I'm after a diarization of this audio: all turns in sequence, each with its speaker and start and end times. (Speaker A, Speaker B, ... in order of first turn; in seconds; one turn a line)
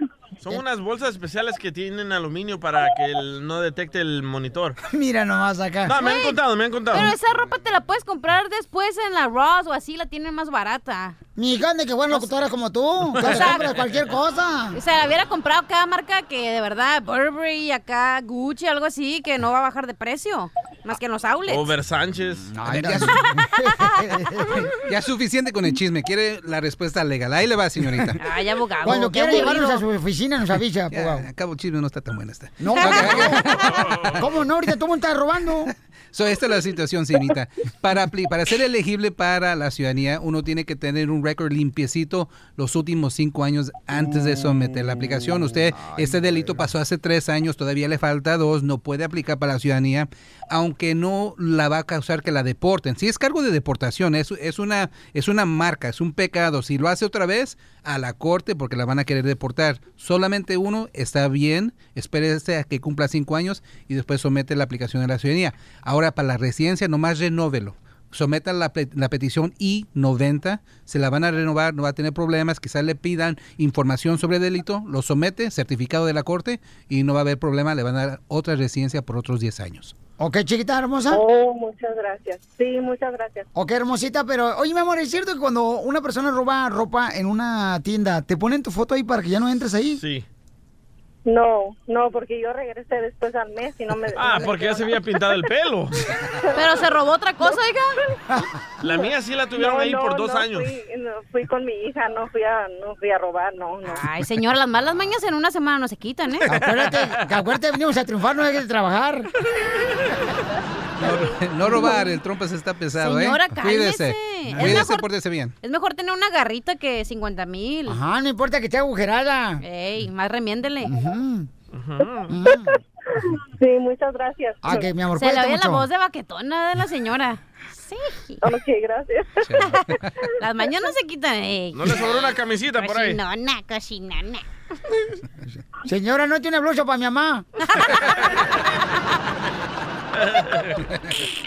Speaker A: 0.4-4.8
Speaker B: 4.9-6.0
Speaker A: 5.8-7.1
Speaker C: 6.0-6.4
Speaker C: 6.9-11.2
Speaker B: 11.3-14.8
Speaker C: 13.2-13.7
Speaker A: 13.2-13.8
Speaker C: 14.7-21.7
Speaker A: 21.5-22.5
Speaker B: 22.5-24.7
Speaker D: 22.6-23.1
Speaker D: 24.8-28.2
Speaker B: 27.9-28.1
Speaker C: 28.2-29.8
Speaker B: 28.8-31.3
Speaker D: 30.9-33.5
Speaker B: 32.6-33.6
Speaker C: 32.8-33.3
Speaker B: 34.2-35.7
Speaker D: 35.7-79.9
Speaker B: 45.7-46.7
Speaker B: 80.2-81.2
Speaker E: 81.1-83.5
Speaker B: 83.5-90.0
Speaker A: 90.0-90.2
Speaker E: 91.2-95.4
Speaker A: 94.1-96.0
Speaker E: 96.4-96.8
Speaker C: 96.5-97.9
Speaker A: 98.8-100.7
Speaker E: 99.5-104.0
Speaker C: 103.9-106.4
Speaker A: 106.5-107.0
Speaker B: 106.5-109.3
Speaker D: 111.0-115.5
Speaker B: 111.6-112.0
Speaker C: 111.7-112.1
Speaker C: 113.0-115.1
Speaker B: 114.5-114.9
Speaker C: 115.6-118.0
Speaker B: 117.8-119.6
Speaker C: 119.6-120.9
Speaker B: 120.8-121.5
Speaker A: 121.7-122.3
Speaker B: 122.3-122.7
Speaker E: 123.5-124.9
Speaker B: 124.6-125.9
Speaker C: 125.1-128.4
Speaker E: 128.4-129.5
Speaker C: 129.6-129.9
Speaker C: 130.4-134.4
Speaker A: 131.7-133.2
Speaker B: 135.5-137.5
Speaker C: 137.7-138.0
Speaker A: 140.3-140.7